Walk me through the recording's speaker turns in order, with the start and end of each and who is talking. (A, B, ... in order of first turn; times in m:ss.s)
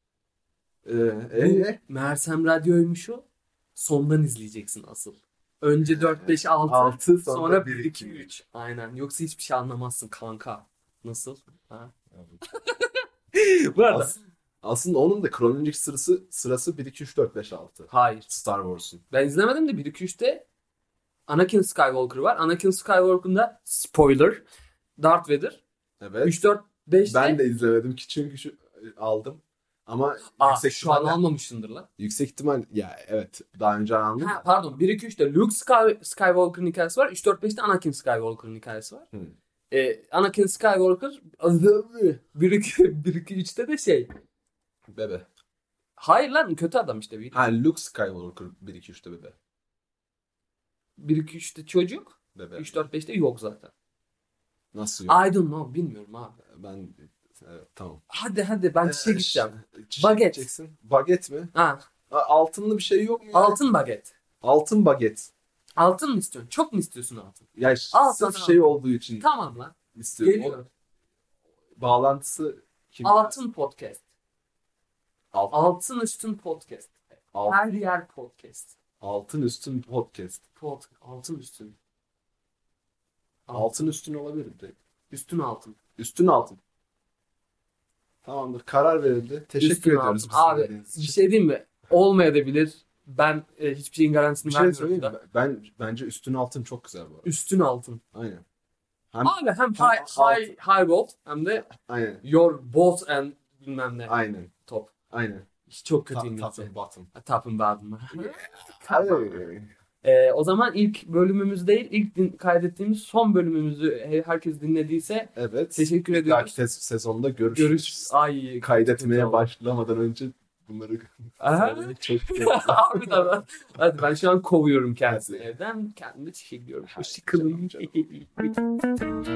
0:00.8-0:01.8 A
0:01.3-0:11.9 B
0:05.8-0:08.3 A
0:12.1-0:12.4 A
0:12.5-0:14.2 B
0:13.9-0:19.0 A
0:17.9-0:18.3 B
0:19.1-0:20.5 B
0:21.3-0:24.4 B
0:25.0-0:25.6 B
0:26.0-0:26.4 A
0:26.2-0:27.4 B
0:27.0-0:31.2 A
0:30.3-0:31.9 B
0:32.0-0:34.4 A
0:34.2-0:39.1 B
0:39.7-0:44.1 B
0:44.9-0:45.3 A
0:46.0-0:47.4 B
0:47.3-0:49.4 A
0:51.0-0:53.7 B
0:52.4-0:52.8 A
0:54.7-0:55.2 A
0:55.1-0:56.4 B
0:56.5-0:58.1 A
0:58.1-1:00.5 B
0:58.8-1:01.5 A
1:01.5-1:01.8 B
1:02.1-1:03.6 A
1:03.3-1:04.1 B
1:04.4-1:05.3 A
1:05.8-1:10.7 B
1:07.6-1:09.3 A
1:09.9-1:10.6 A
1:11.8-1:13.4 A
1:13.0-1:14.0 B
1:15.5-1:18.8 B
1:17.3-1:17.6 A
1:19.0-1:20.4 A
1:20.6-1:21.8 B
1:23.5-1:23.8 B
1:23.5-1:24.8 A
1:25.1-1:25.8 B
1:26.0-1:26.6 A
1:28.2-1:31.2 A
1:29.6-1:35.2 B
1:34.4-1:37.3 A
1:37.2-1:38.0 B
1:38.1-1:38.4 A
1:39.1-1:40.5 A
1:39.2-1:41.7 B
1:41.7-1:42.2 A
1:42.2-1:44.1 B
1:44.1-1:44.5 A
1:44.6-1:44.9 B
1:45.1-1:45.5 A
1:45.7-1:49.4 B
1:46.1-1:47.1 A
1:48.1-1:49.7 A
1:50.0-1:56.6 B
1:55.4-2:03.3 A
1:57.5-1:59.5 B
2:01.4-2:08.5 B
2:05.1-2:05.5 A
2:06.8-2:08.0 A